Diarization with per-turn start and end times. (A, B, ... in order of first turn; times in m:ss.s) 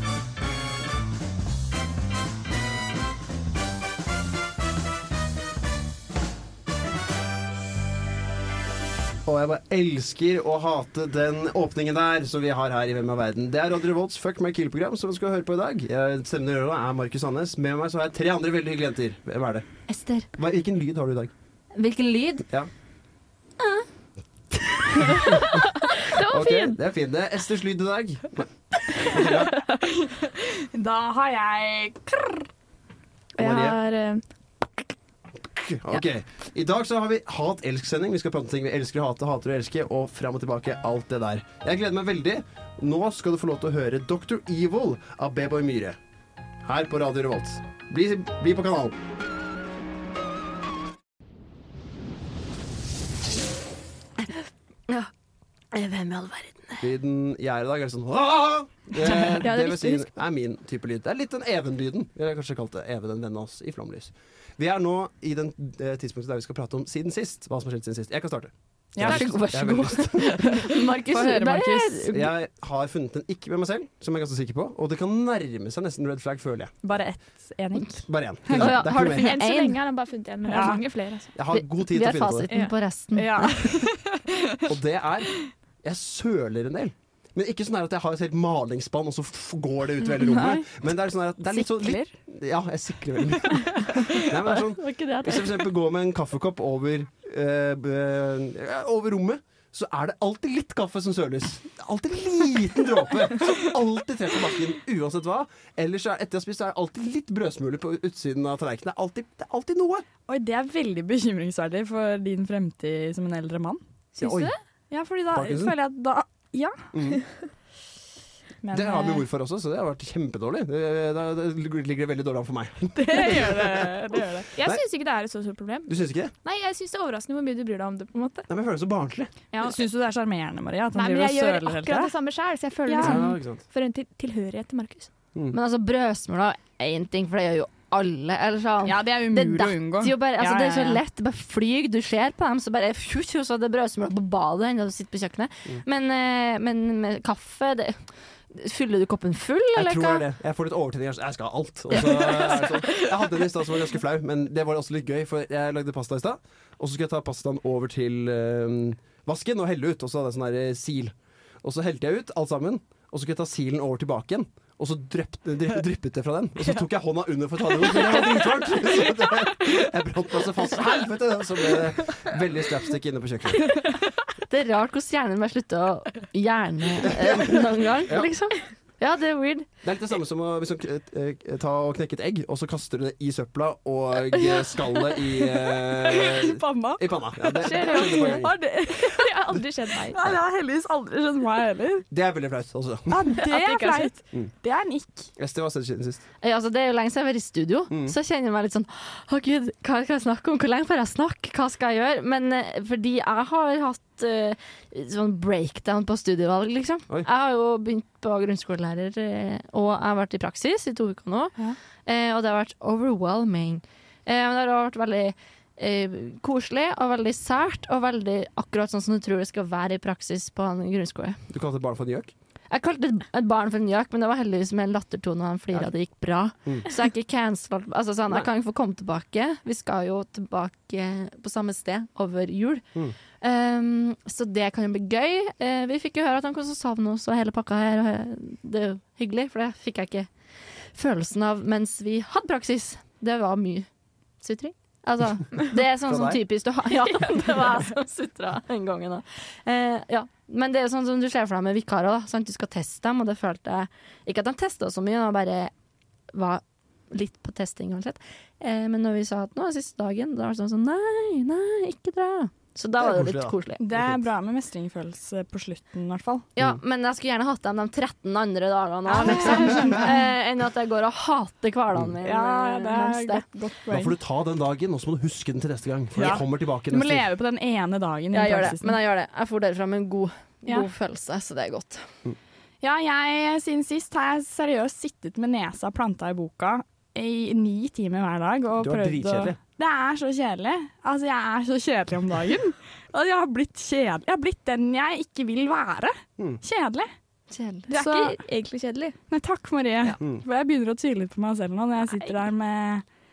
0:09.2-0:19.7 A
0:19.9-0:20.3 B
0:20.4-0:21.3 A
0:21.8-0:22.4 B
0:25.2-0:26.8 C
0:26.2-0:29.5 A
0:29.6-0:32.5 D
0:33.4-0:34.2 C
0:33.4-0:33.8 A
0:35.4-0:46.0 A
0:46.6-0:49.0 A
0:55.7-0:56.8 B
0:56.8-1:10.6 A
0:59.4-1:00.1 C
1:08.9-1:09.3 D
1:09.0-1:12.3 B
1:10.6-1:12.1 D
1:12.1-1:16.8 A
1:16.8-1:18.7 D
1:18.1-1:19.4 A
1:18.6-1:19.8 B
1:18.9-1:21.3 C
1:20.5-1:20.8 D
1:21.3-1:22.5 A
1:21.5-1:23.6 B
1:22.5-1:24.8 D
1:24.7-1:25.3 A
1:25.8-1:50.1 A
1:30.1-1:30.7 D
1:31.5-1:32.1 D
1:34.8-1:35.6 B
1:50.3-1:53.8 D
1:54.1-1:54.6 C
1:54.2-1:54.5 A
1:54.9-1:56.8 D
1:55.3-1:55.8 A
1:56.9-1:57.2 A
1:58.6-1:59.2 D
1:58.7-2:04.8 A
2:03.0-2:04.5 D
2:04.6-2:08.5 C
2:05.9-2:06.3 A
2:08.5-2:09.3 A
2:09.5-2:09.8 C
2:09.6-2:12.1 D
2:10.9-2:15.1 C
2:12.9-2:13.2 D
2:13.0-2:13.6 A
2:15.5-2:30.2 B
2:18.8-2:21.0 D
2:29.7-2:53.7 A
2:54.5-2:59.7 B
2:57.0-2:58.3 A
2:59.8-3:08.6 A
3:04.5-3:09.3 D
3:07.6-3:10.3 C
3:10.1-3:12.0 D
3:12.1-3:13.4 A
3:13.1-3:15.3 D
3:13.3-3:14.1 C
3:15.4-3:16.2 A
3:16.4-3:41.4 B
3:41.5-3:42.3 A
3:42.7-3:52.8 B
3:53.4-4:00.3 B
4:00.9-4:03.9 B
4:04.4-4:15.7 B
4:06.1-4:06.4 A
4:16.3-4:23.8 B
4:23.0-4:24.2 A
4:23.8-4:26.4 D
4:26.6-4:33.4 B
4:29.1-4:30.2 D
4:29.5-4:30.0 A
4:32.2-4:34.2 D
4:33.9-4:37.3 A
4:36.1-4:38.9 D
4:38.3-4:42.1 B
4:42.8-4:57.1 D
4:48.8-4:49.6 A
4:57.5-4:57.9 B
4:57.9-4:59.1 C
4:57.9-4:58.4 D
4:59.3-5:03.0 D
5:02.1-5:02.4 C